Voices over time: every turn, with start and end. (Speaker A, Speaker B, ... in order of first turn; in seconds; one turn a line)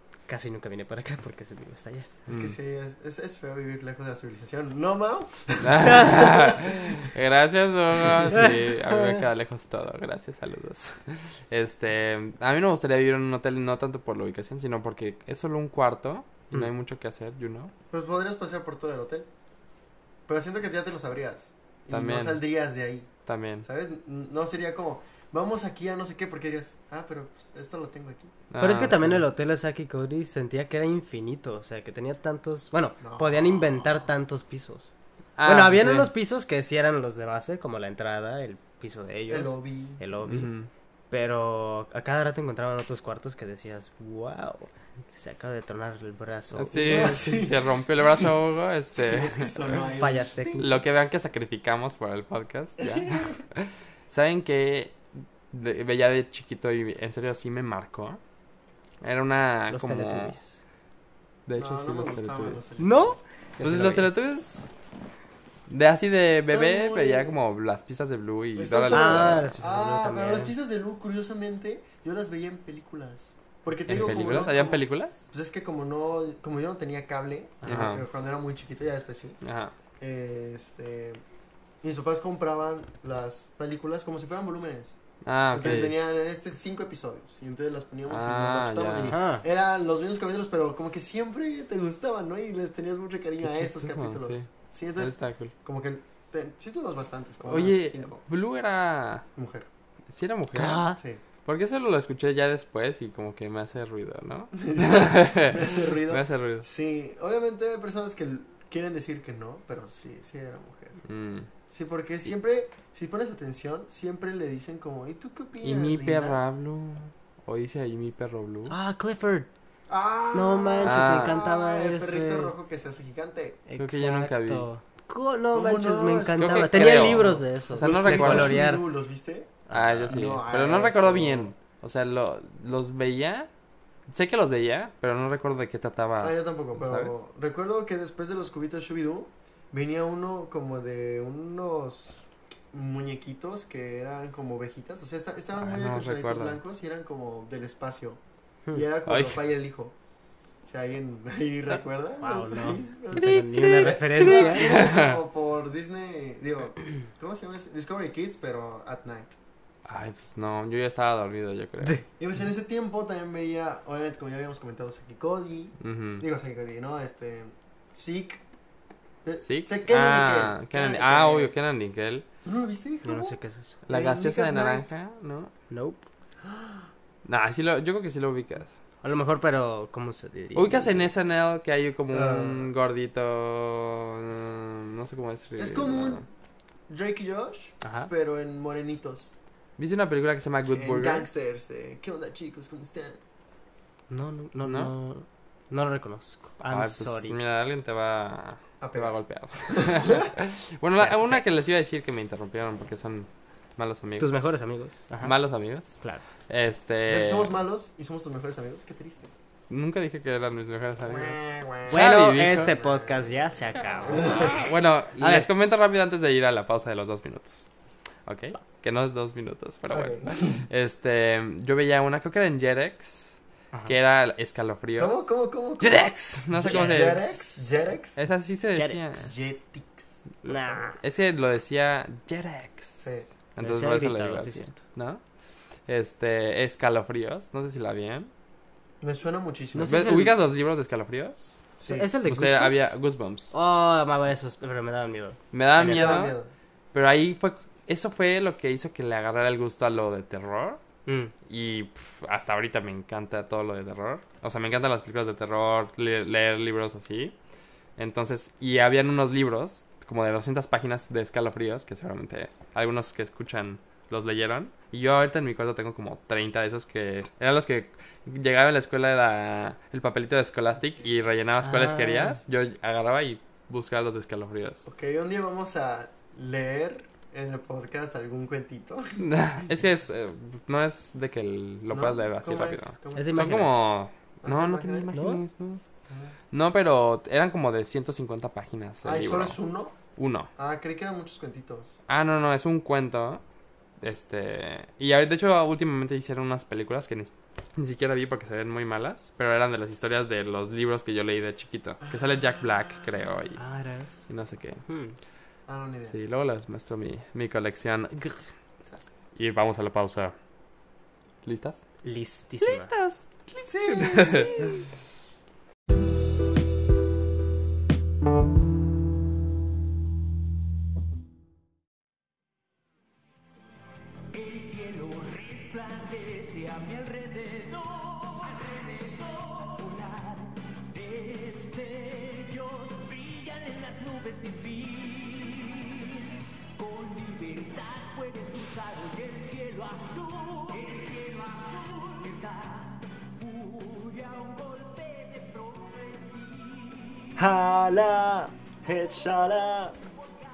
Speaker A: 0.3-2.1
Speaker B: 2.3-2.6
Speaker C: 2.3-7.0
Speaker B: 5.6-17.7
Speaker C: 17.9-19.3
Speaker C: 20.3-23.1
Speaker B: 21.9-22.4
Speaker B: 23.2-23.6
Speaker C: 23.6-28.4
Speaker B: 28.5-29.2
Speaker A: 28.6-40.5
Speaker C: 33.0-33.6
Speaker B: 35.4-36.1
Speaker C: 39.3-40.0
Speaker B: 40.2-40.7
Speaker A: 41.1-47.2
Speaker B: 46.5-49.9
Speaker C: 46.8-48.3
Speaker C: 49.0-50.6
Speaker A: 50.0-50.8
Speaker B: 50.6-55.0
Speaker C: 52.8-53.4
Speaker B: 55.5-58.2
Speaker B: 59.0-60.4
Speaker A: 59.7-60.6
Speaker B: 61.5-62.6
Speaker C: 61.5-63.2
Speaker A: 62.8-64.1
Speaker B: 63.6-64.7
Speaker B: 65.7-69.5
Speaker C: 66.4-67.4
Speaker C: 68.5-79.4
Speaker A: 68.9-70.5
Speaker B: 73.9-75.2
Speaker A: 77.6-78.0
Speaker B: 77.7-78.0
Speaker B: 79.4-79.7
Speaker C: 80.0-81.2
Speaker C: 81.8-85.0
Speaker B: 85.2-86.0
Speaker C: 85.5-98.2
Speaker B: 88.1-89.2
Speaker A: 89.0-89.4
Speaker B: 93.4-95.5
Speaker B: 97.5-99.2
Speaker C: 99.4-99.7
Speaker B: 100.1-100.9
Speaker A: 100.5-101.0
Speaker B: 101.5-106.7
Speaker C: 104.5-111.0
Speaker B: 111.0-111.5
Speaker C: 111.7-116.4
Speaker B: 115.6-118.7
Speaker A: 118.7-119.5
Speaker C: 119.9-123.6
Speaker A: 120.3-122.5
Speaker B: 120.8-121.4
Speaker A: 123.7-128.8
Speaker B: 123.8-124.7
Speaker C: 125.5-131.5
Speaker B: 126.4-128.6
Speaker A: 129.7-130.2
Speaker B: 129.7-133.5
Speaker B: 134.1-137.1
Speaker C: 136.2-148.2
Speaker B: 145.6-146.6
Speaker C: 148.7-149.9
Speaker B: 149.1-149.4
Speaker C: 150.6-159.4
Speaker A: 152.2-154.7
Speaker B: 153.2-155.2
Speaker B: 159.9-162.1
Speaker C: 162.2-168.4
Speaker B: 165.8-166.2
Speaker C: 169.2-171.5
Speaker B: 169.4-172.2
Speaker C: 172.4-173.4
Speaker A: 173.0-173.8
Speaker B: 173.9-175.5
Speaker C: 173.9-174.9
Speaker A: 175.7-176.0
Speaker C: 176.4-176.9
Speaker B: 177.2-178.7
Speaker A: 179.0-181.0
Speaker B: 180.5-186.2
Speaker C: 182.1-182.7
Speaker C: 185.6-186.2
Speaker C: 186.9-189.3
Speaker A: 187.8-188.1
Speaker B: 189.8-191.3
Speaker C: 190.7-193.2
Speaker A: 194.1-197.4
Speaker B: 194.6-194.9
Speaker B: 196.7-204.5
Speaker C: 198.8-199.2
Speaker C: 199.7-200.3
Speaker A: 201.0-201.4
Speaker A: 204.2-205.4
Speaker B: 205.2-207.5
Speaker A: 205.9-206.2
Speaker C: 207.1-209.3
Speaker B: 209.7-212.8
Speaker C: 211.1-212.0
Speaker A: 211.9-214.6
Speaker C: 212.7-213.3
Speaker C: 214.0-214.6
Speaker B: 214.1-217.7
Speaker A: 215.2-215.5
Speaker B: 218.2-227.6
Speaker C: 219.9-220.6
Speaker C: 225.0-228.2
Speaker A: 226.6-227.2
Speaker B: 228.2-229.3
Speaker A: 228.8-229.0
Speaker C: 229.2-230.9
Speaker A: 230.4-231.0
Speaker B: 231.0-235.2
Speaker C: 233.0-233.3
Speaker A: 233.6-234.8
Speaker B: 235.9-238.3
Speaker C: 239.0-240.1
Speaker A: 239.7-240.3
Speaker B: 239.8-241.7
Speaker C: 241.8-242.1
Speaker A: 241.8-242.9
Speaker B: 242.2-243.5
Speaker A: 243.5-246.2
Speaker B: 245.5-246.3
Speaker C: 245.8-246.5
Speaker B: 246.9-250.8
Speaker A: 251.1-251.3
Speaker B: 251.5-257.3
Speaker B: 258.0-274.8
Speaker A: 271.6-272.4
Speaker C: 274.9-279.3
Speaker B: 279.2-285.8
Speaker C: 281.9-283.8
Speaker A: 283.2-283.9
Speaker C: 284.4-285.1
Speaker A: 285.1-285.4
Speaker C: 286.1-286.3
Speaker B: 286.5-289.6
Speaker C: 289.0-289.9
Speaker B: 290.2-290.5
Speaker C: 290.6-291.9
Speaker B: 292.1-293.4
Speaker B: 294.0-303.6
Speaker C: 302.1-303.2
Speaker A: 303.6-304.3
Speaker B: 304.3-304.8
Speaker A: 304.9-305.1
Speaker C: 305.7-306.2
Speaker B: 306.0-308.4
Speaker B: 309.3-310.3
Speaker B: 311.4-311.9
Speaker A: 312.0-312.9
Speaker B: 312.6-314.8
Speaker C: 313.6-314.8
Speaker D: 324.3-347.4
Speaker C: 347.3-350.0